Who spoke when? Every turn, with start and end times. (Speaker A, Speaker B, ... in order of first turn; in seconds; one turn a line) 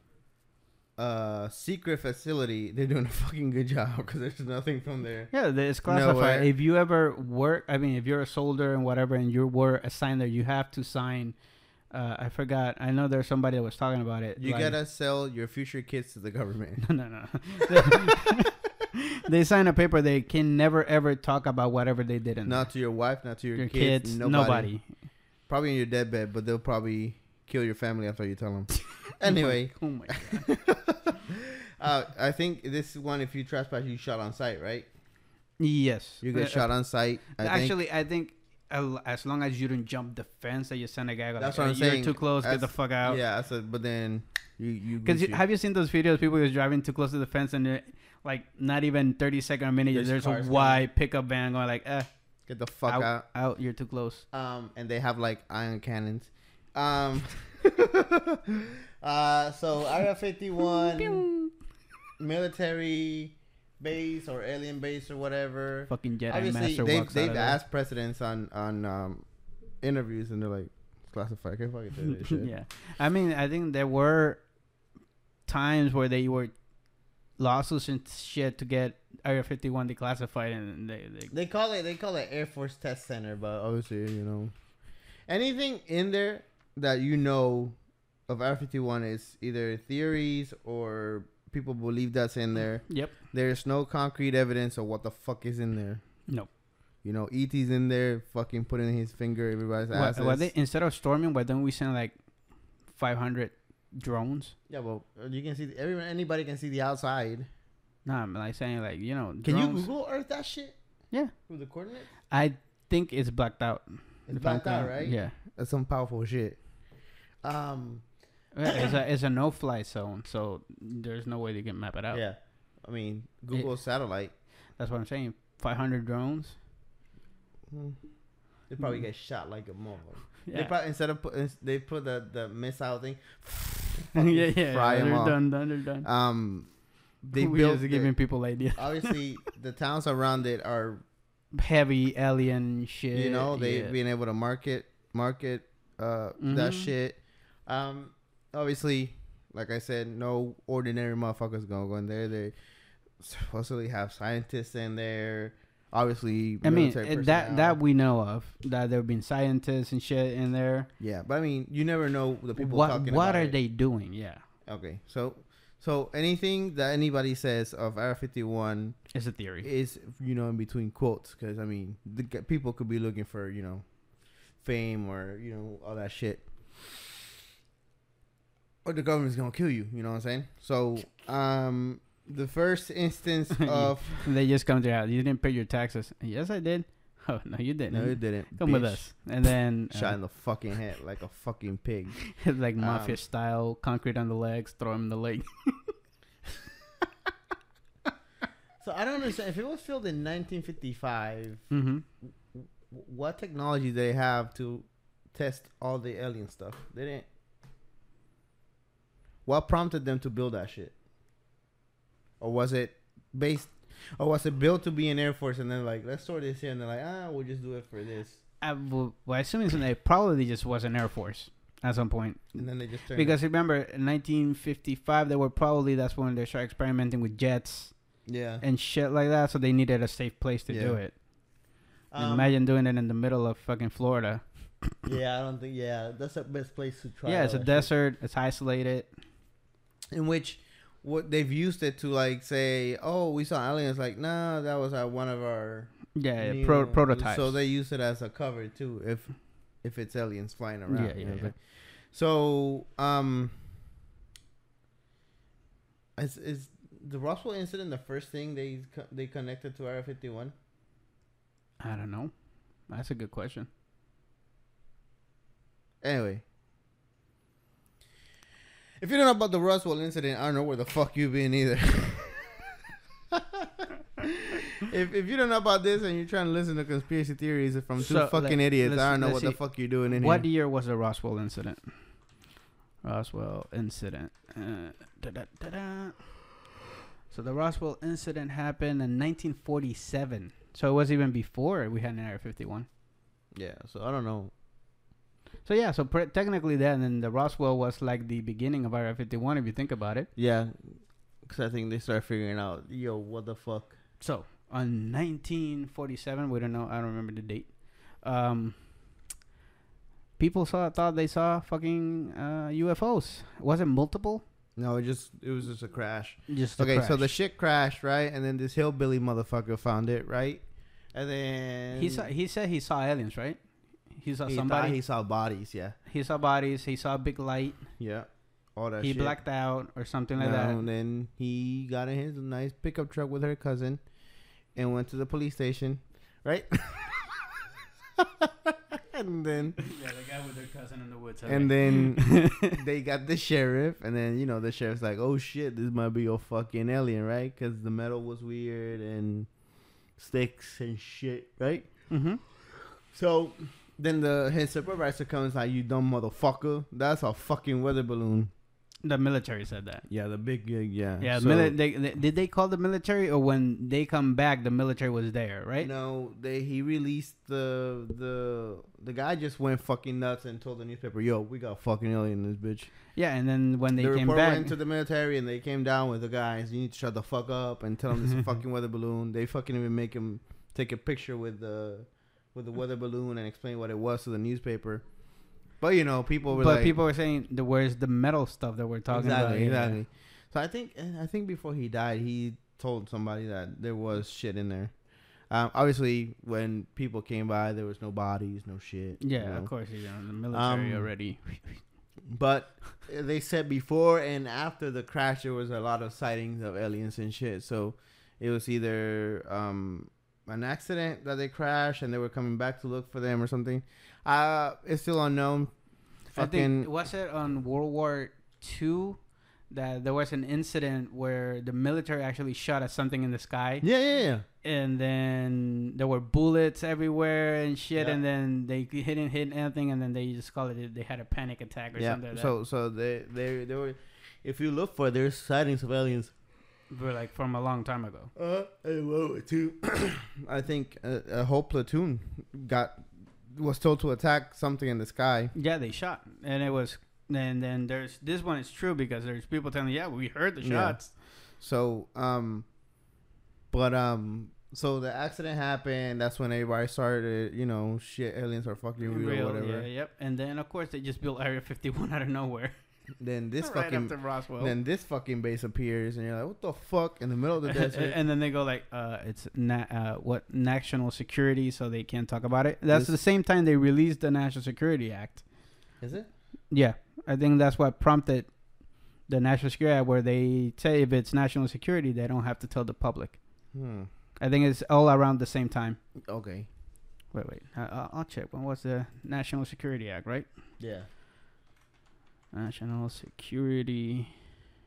Speaker A: 1.0-5.3
Speaker B: 5.3-11.4
Speaker A: 5.9-6.5
Speaker B: 11.9-14.8
Speaker A: 14.4-16.9
Speaker B: 16.8-22.7
Speaker A: 17.7-18.5
Speaker A: 22.5-24.7
Speaker B: 23.6-24.9
Speaker A: 25.5-34.9
Speaker B: 29.2-30.5
Speaker B: 35.6-36.7
Speaker A: 36.2-37.7
Speaker B: 37.4-43.2
Speaker A: 41.4-45.4
Speaker B: 45.0-52.1
Speaker A: 49.9-50.9
Speaker A: 52.5-53.2
Speaker B: 52.9-54.2
Speaker A: 54.3-61.3
Speaker B: 60.8-61.5
Speaker A: 62.2-69.3
Speaker B: 65.9-67.6
Speaker A: 69.8-72.5
Speaker B: 72.2-74.4
Speaker B: 75.5-76.5
Speaker B: 77.4-81.3
Speaker A: 81.3-84.5
Speaker A: 85.3-87.8
Speaker A: 88.3-96.0
Speaker B: 92.9-93.1
Speaker A: 97.0-100.5
Speaker B: 99.9-102.2
Speaker B: 102.9-104.6
Speaker A: 104.7-107.5
Speaker B: 108.0-109.9
Speaker A: 109.4-110.8
Speaker A: 111.5-112.1
Speaker B: 112.3-115.4
Speaker A: 114.3-116.6
Speaker A: 117.4-118.1
Speaker B: 118.5-122.2
Speaker A: 122.1-124.3
Speaker B: 124.8-126.6
Speaker A: 127.7-128.0
Speaker A: 128.7-135.4
Speaker B: 130.4-130.7
Speaker B: 134.2-136.1
Speaker A: 136.0-136.7
Speaker A: 137.2-138.2
Speaker B: 137.3-139.2
Speaker A: 138.8-141.0
Speaker B: 141.5-143.9
Speaker A: 143.1-152.5
Speaker B: 146.4-146.9
Speaker A: 153.2-157.8
Speaker B: 156.6-160.9
Speaker A: 161.0-163.6
Speaker B: 162.6-164.4
Speaker A: 164.7-169.1
Speaker B: 169.1-169.7
Speaker A: 169.6-173.8
Speaker A: 174.6-176.5
Speaker A: 178.8-184.3
Speaker B: 183.6-190.2
Speaker A: 187.9-189.0
Speaker A: 189.9-192.3
Speaker B: 192.3-195.9
Speaker A: 192.8-193.2
Speaker A: 198.8-201.7
Speaker B: 201.7-202.1
Speaker A: 202.6-207.3
Speaker A: 209.5-210.9
Speaker A: 212.4-218.4
Speaker B: 218.6-227.9
Speaker A: 222.6-223.4
Speaker A: 228.3-228.6
Speaker B: 228.6-231.2
Speaker A: 230.7-231.0
Speaker A: 232.1-232.5
Speaker B: 232.2-234.4
Speaker A: 235.1-237.9
Speaker B: 237.3-239.1
Speaker A: 240.1-253.6
Speaker B: 246.2-247.6
Speaker B: 250.9-251.5
Speaker A: 256.2-260.5
Speaker B: 261.8-262.3
Speaker B: 262.9-263.7
Speaker A: 266.0-266.4
Speaker A: 269.0-272.8
Speaker A: 273.3-280.5
Speaker B: 278.0-281.9
Speaker B: 283.0-286.4
Speaker B: 287.3-292.9
Speaker A: 293.5-294.5
Speaker B: 295.6-300.3
Speaker A: 300.4-304.0
Speaker B: 304.2-308.8
Speaker B: 310.4-314.4
Speaker A: 314.8-320.6
Speaker B: 316.5-317.3
Speaker A: 321.1-322.3
Speaker B: 321.9-323.6
Speaker B: 324.1-325.0
Speaker A: 324.5-326.0
Speaker B: 326.1-327.9
Speaker A: 328.0-329.4
Speaker B: 329.0-330.8
Speaker A: 330.4-334.0
Speaker A: 334.8-337.4
Speaker A: 338.2-339.8
Speaker B: 339.8-342.8
Speaker A: 341.5-349.5
Speaker A: 350.2-352.1
Speaker B: 352.1-352.4
Speaker A: 353.1-358.5
Speaker B: 359.0-360.1
Speaker A: 360.1-361.8
Speaker B: 361.2-365.9
Speaker A: 365.8-372.9
Speaker B: 373.1-374.8
Speaker A: 374.0-385.1
Speaker A: 385.8-387.0
Speaker B: 386.5-390.0
Speaker A: 389.1-395.0
Speaker A: 395.5-399.7
Speaker B: 399.2-401.8
Speaker A: 400.5-401.1
Speaker A: 402.3-415.7
Speaker A: 416.3-416.9
Speaker B: 416.4-423.9
Speaker A: 423.8-424.4
Speaker B: 424.6-432.5
Speaker A: 432.0-436.3
Speaker B: 436.9-438.3
Speaker A: 438.4-445.5
Speaker B: 445.5-451.1
Speaker A: 450.6-452.7
Speaker A: 453.7-459.9
Speaker B: 459.1-462.7
Speaker A: 463.2-468.2
Speaker B: 463.6-464.8
Speaker B: 467.7-475.4
Speaker A: 476.0-476.3
Speaker B: 476.7-478.5
Speaker B: 479.3-483.4
Speaker A: 483.7-484.1
Speaker B: 484.4-486.0
Speaker A: 486.3-486.7
Speaker B: 487.3-490.5
Speaker A: 490.8-491.1
Speaker B: 492.5-494.3